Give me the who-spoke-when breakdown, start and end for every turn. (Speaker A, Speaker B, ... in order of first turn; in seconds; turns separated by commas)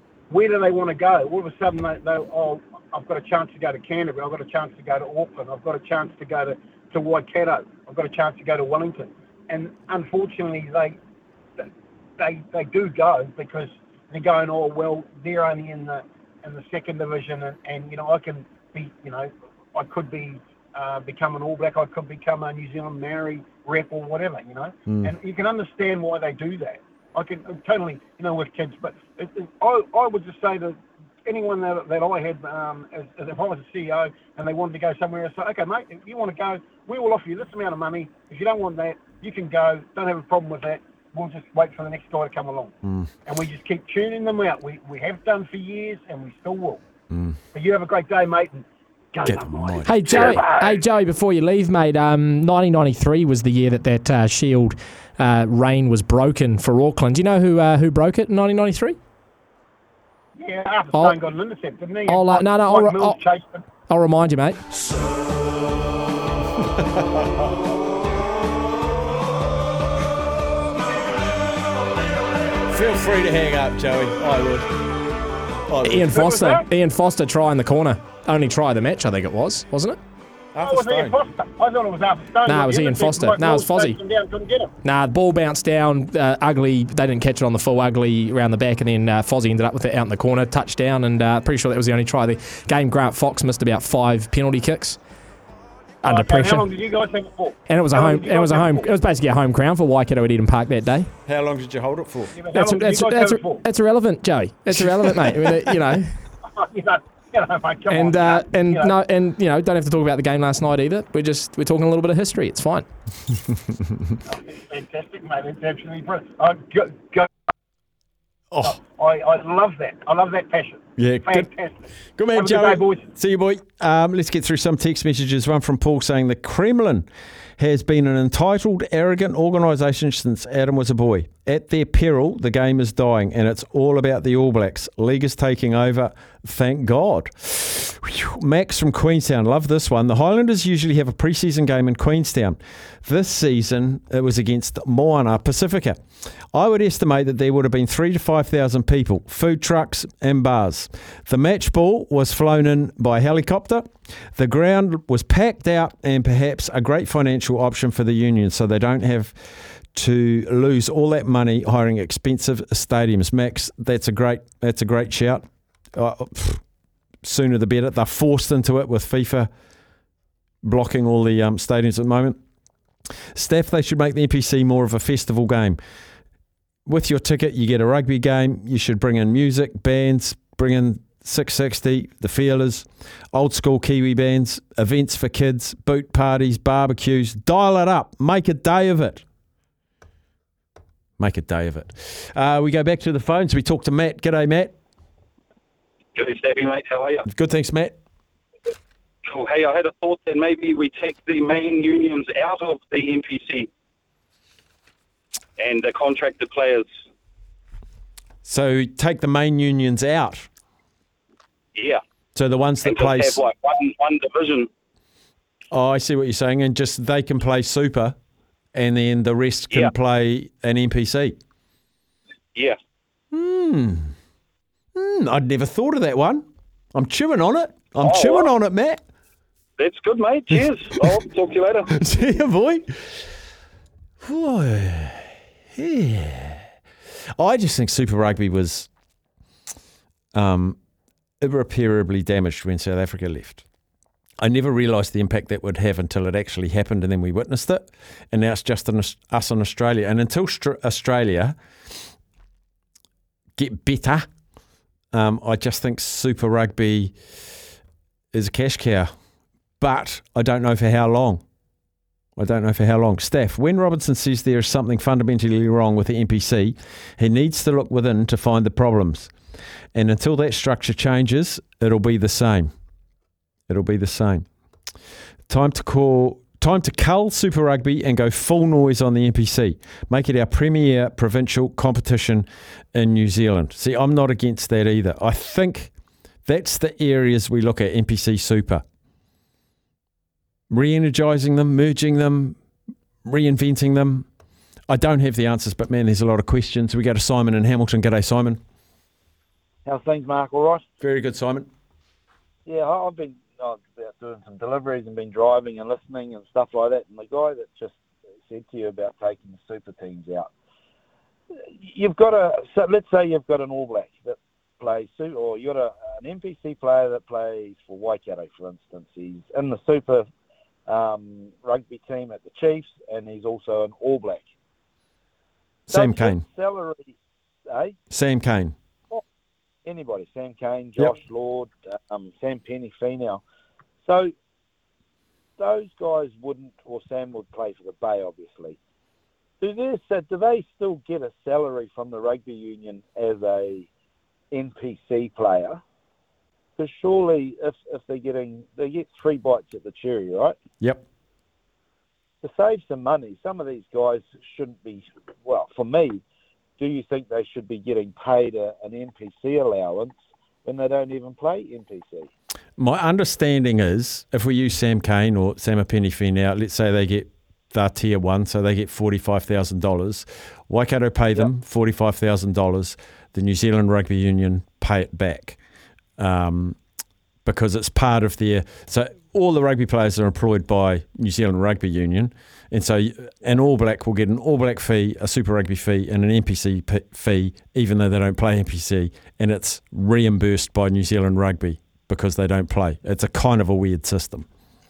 Speaker A: 0.3-11.0, Speaker A: 12.2-42.7, Speaker B: 24.9-25.1, Speaker B: 42.8-43.1, Speaker A: 43.2-46.8, Speaker B: 47.1-47.4, Speaker A: 47.5-50.7, Speaker B: 49.2-50.4, Speaker C: 49.9-59.0, Speaker A: 60.4-63.6, Speaker C: 62.1-63.2, Speaker C: 63.9-64.6, Speaker B: 66.6-67.5, Speaker B: 72.7-74.7, Speaker B: 75.7-76.2, Speaker C: 75.8-80.0, Speaker A: 76.0-76.7, Speaker B: 80.5-81.1, Speaker A: 80.6-84.7, Speaker C: 82.5-84.0, Speaker C: 84.8-95.0, Speaker C: 96.0-96.7, Speaker A: 96.0-98.9, Speaker C: 97.7-101.1, Speaker B: 101.2-102.4, Speaker A: 102.3-103.6, Speaker C: 102.5-106.2, Speaker B: 105.1-105.5, Speaker A: 106.4-108.9, Speaker C: 107.9-112.9, Speaker A: 114.2-117.3, Speaker B: 118.5-118.8, Speaker A: 118.6-123.0, Speaker B: 121.0-121.5, Speaker B: 122.2-146.0, Speaker B: 146.5-159.3, Speaker B: 159.9-166.6, Speaker B: 167.2-169.5, Speaker B: 170.6-172.4, Speaker B: 173.3-175.8, Speaker B: 176.9-189.2, Speaker B: 191.2-194.7, Speaker D: 196.1-197.2, Speaker B: 197.2-197.9, Speaker D: 199.2-203.7, Speaker D: 205.6-206.9, Speaker B: 208.4-210.5, Speaker D: 211.7-212.0, Speaker B: 212.3-213.4, Speaker D: 212.8-214.7, Speaker B: 215.7-218.2, Speaker B: 218.7-221.4, Speaker B: 223.3-224.1, Speaker B: 224.9-229.0, Speaker D: 228.0-228.5, Speaker D: 229.8-231.9, Speaker B: 231.9-233.2, Speaker B: 234.2-236.7, Speaker B: 237.4-238.9, Speaker B: 240.3-240.8, Speaker B: 241.4-243.6, Speaker B: 244.4-251.6, Speaker B: 253.6-254.3, Speaker B: 255.1-257.1, Speaker B: 258.3-259.1, Speaker B: 259.8-261.4, Speaker B: 262.4-269.3, Speaker B: 269.9-272.7, Speaker B: 273.7-274.5, Speaker B: 275.5-285.9, Speaker B: 286.4-288.8, Speaker B: 290.7-292.6, Speaker B: 293.2-294.3, Speaker B: 294.9-298.6, Speaker E: 299.9-300.8, Speaker B: 301.0-301.7, Speaker E: 302.6-307.9, Speaker E: 308.4-310.5, Speaker E: 311.8-320.3, Speaker E: 320.9-324.4, Speaker B: 325.9-326.4, Speaker E: 325.9-327.1, Speaker E: 327.7-328.0, Speaker B: 328.1-328.7, Speaker E: 329.8-333.4, Speaker E: 334.0-334.3, Speaker E: 335.6-338.8, Speaker E: 339.6-343.9, Speaker E: 344.5-345.8, Speaker E: 346.8-350.6, Speaker E: 352.4-356.2, Speaker E: 356.8-362.3, Speaker B: 362.8-375.6, Speaker B: 376.2-376.8, Speaker B: 377.4-394.4